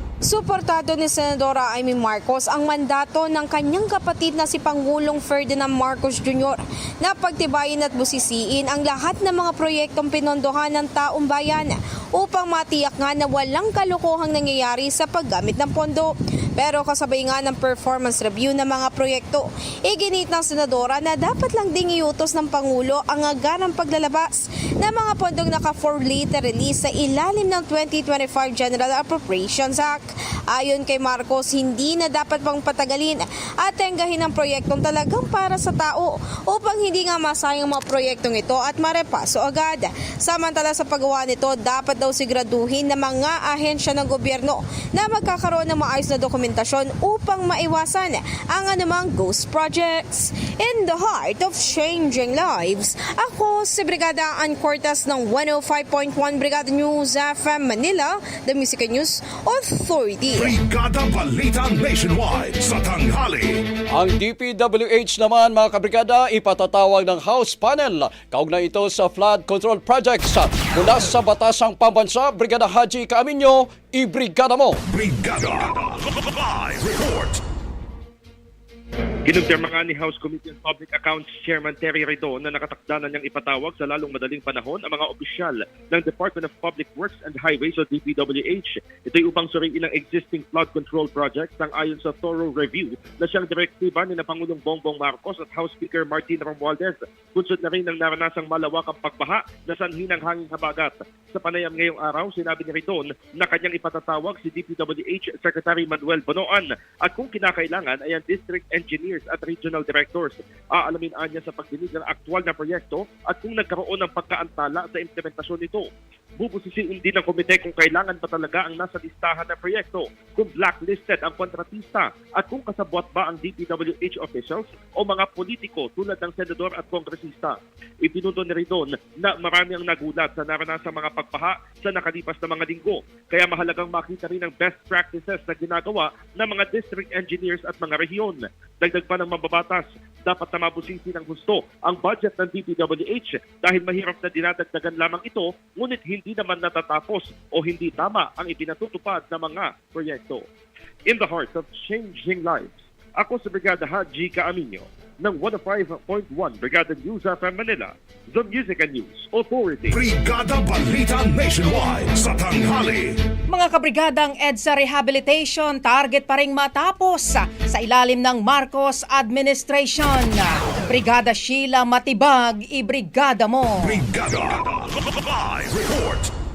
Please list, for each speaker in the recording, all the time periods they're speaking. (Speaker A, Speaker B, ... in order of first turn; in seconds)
Speaker A: 0.2-60.6
Speaker B: 60.3-63.6, 74.9-77.4, 159.9-163.2, 173.8-176.3
Speaker C: 63.9-74.8
Speaker D: 79.3-115.9, 116.4-150.4, 151.1-160.0
Speaker E: 163.5-174.0